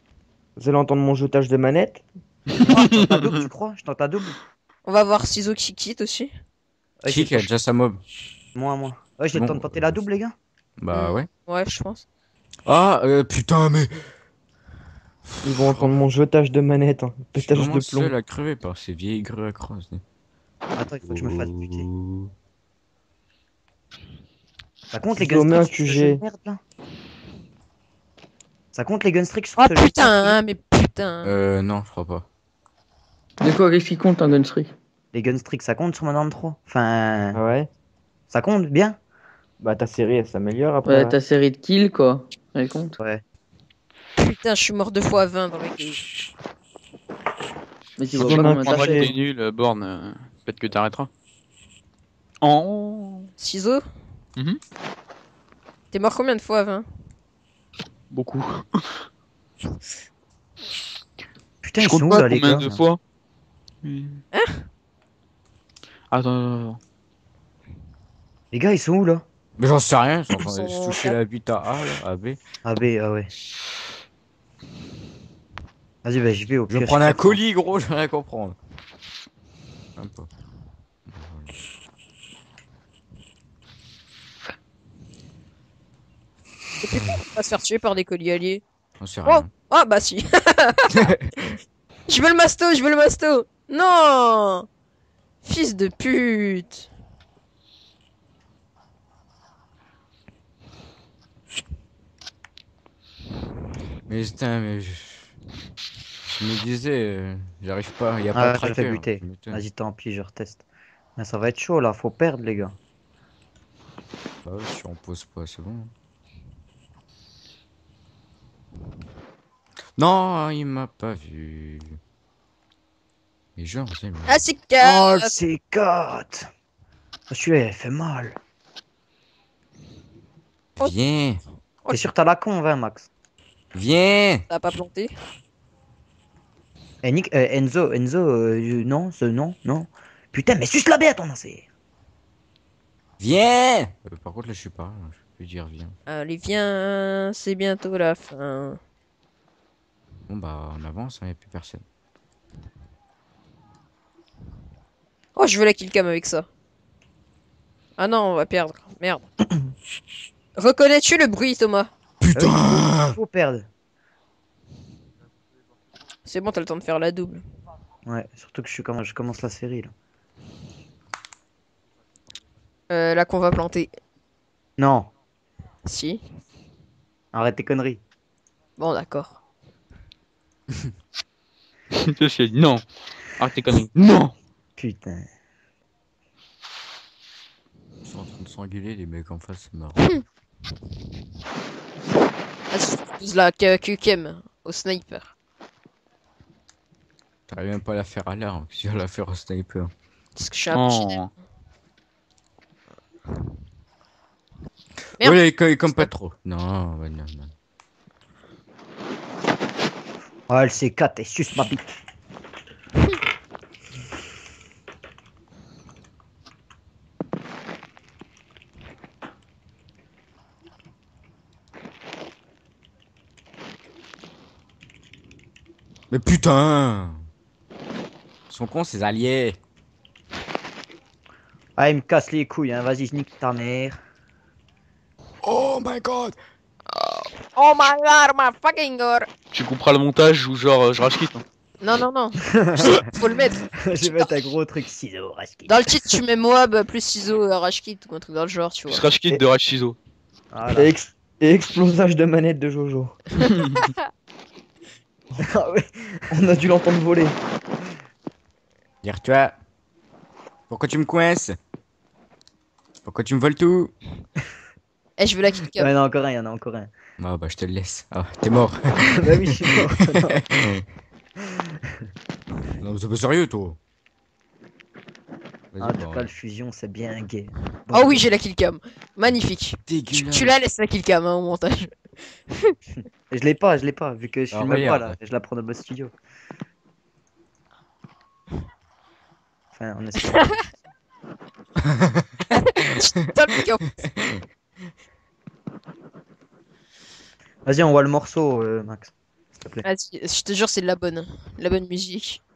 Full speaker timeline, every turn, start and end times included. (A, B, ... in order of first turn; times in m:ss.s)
0:00.6-0:02.0 A
0:02.6-0:04.4 B
0:04.8-0:06.3 C
0:07.0-0:07.5 B
0:07.1-0:08.0 D
0:08.5-0:10.3 B
0:09.3-0:10.0 D
0:10.8-0:11.3 D
0:10.9-0:12.0 C
0:12.6-0:13.9 D
0:15.4-0:18.1 A
0:15.5-0:15.9 D
0:17.4-0:20.0 D
0:20.7-0:21.9 B
0:21.1-0:22.3 D
0:24.9-0:26.6 B
0:25.1-0:26.2 A
0:28.7-0:30.3 B
0:29.6-0:31.4 C
0:31.2-0:32.2 D
0:33.4-0:34.7 E
0:35.1-0:37.4 B
0:37.3-0:37.7 A
0:38.3-0:39.0 B
0:39.6-0:41.2 A
0:40.8-0:43.0 E
0:44.2-0:46.0 C
0:48.0-0:49.1 E
0:48.1-0:49.1 A
0:48.1-0:51.1 F
0:52.4-0:53.3 F
0:53.4-0:53.8 C
0:55.9-0:56.8 C
0:58.1-0:58.8 F
1:01.6-1:02.8 B
1:01.8-1:03.0 F
1:03.8-1:04.2 F
1:04.3-1:04.6 C
1:06.1-1:06.8 F
1:08.5-1:09.2 B
1:09.6-1:12.4 D
1:10.4-1:11.2 C
1:12.6-1:13.3 B
1:16.0-1:17.4 B
1:16.7-1:18.6 D
1:20.0-1:20.3 D
1:21.1-1:21.5 D
1:26.8-1:28.6 C
1:29.0-1:29.5 D
1:29.3-1:31.1 C
1:32.1-1:34.6 C
1:35.4-1:36.9 C
1:44.1-1:45.3 D
1:46.2-1:49.6 D
1:48.3-1:50.6 B
1:51.2-1:52.8 B
1:54.4-1:55.9 D
2:00.0-2:02.0 D
2:03.6-2:04.4 D
2:04.3-2:05.3 C
2:04.8-2:06.5 B
2:07.3-2:08.4 B
2:10.8-2:11.4 D
2:11.8-2:12.1 C
2:11.9-2:13.1 B
2:13.7-2:14.4 D
2:14.5-2:15.1 C
2:17.0-2:21.6 B
2:23.2-2:26.0 D
2:26.1-2:28.8 C
2:30.3-2:31.8 D
2:35.4-2:36.4 C
2:38.0-2:39.2 C
2:40.6-2:41.9 C
2:42.2-2:43.2 D
2:42.3-2:43.7 B
2:46.2-2:47.4 C
2:48.0-2:49.9 B
2:52.9-2:53.9 C
2:54.8-2:55.1 B
2:55.8-2:56.2 C
2:57.3-2:58.0 B
2:58.8-2:59.4 C
3:02.0-3:02.8 F
3:03.4-3:04.3 F
3:04.8-3:05.3 B
3:08.0-3:10.2 D
3:12.7-3:15.3 C
3:17.5-3:19.9 D
3:20.3-3:21.2 C
3:20.7-3:21.3 F
3:25.2-3:27.5 D
3:30.5-3:31.9 B
3:46.1-3:47.2 D
3:48.5-3:49.6 D
3:51.8-3:54.0 B
3:55.4-3:56.4 D
3:57.5-3:59.3 C
3:59.5-4:01.4 F
4:01.8-4:04.4 C
4:02.6-4:03.1 B
4:03.8-4:05.9 B
4:05.7-4:09.0 C
4:08.9-4:10.0 F
4:10.5-4:10.9 B
4:10.7-4:13.2 A
4:15.4-4:16.2 B
4:16.3-4:17.4 A
4:19.0-4:19.6 D
4:20.7-4:21.6 D
4:23.0-4:23.9 D
4:25.2-4:25.9 C
4:25.8-4:26.9 B
4:27.2-4:30.8 D
4:29.1-4:30.4 B
4:32.8-4:33.8 D
4:35.7-4:36.3 D
4:35.8-4:38.2 B
4:37.9-4:41.9 C
4:39.9-4:40.6 D
4:43.3-4:46.1 B
4:44.5-4:45.2 D
4:49.7-4:50.6 B
4:51.9-4:52.5 D
4:52.5-4:53.9 C
4:57.6-4:59.8 B
4:59.8-5:02.4 C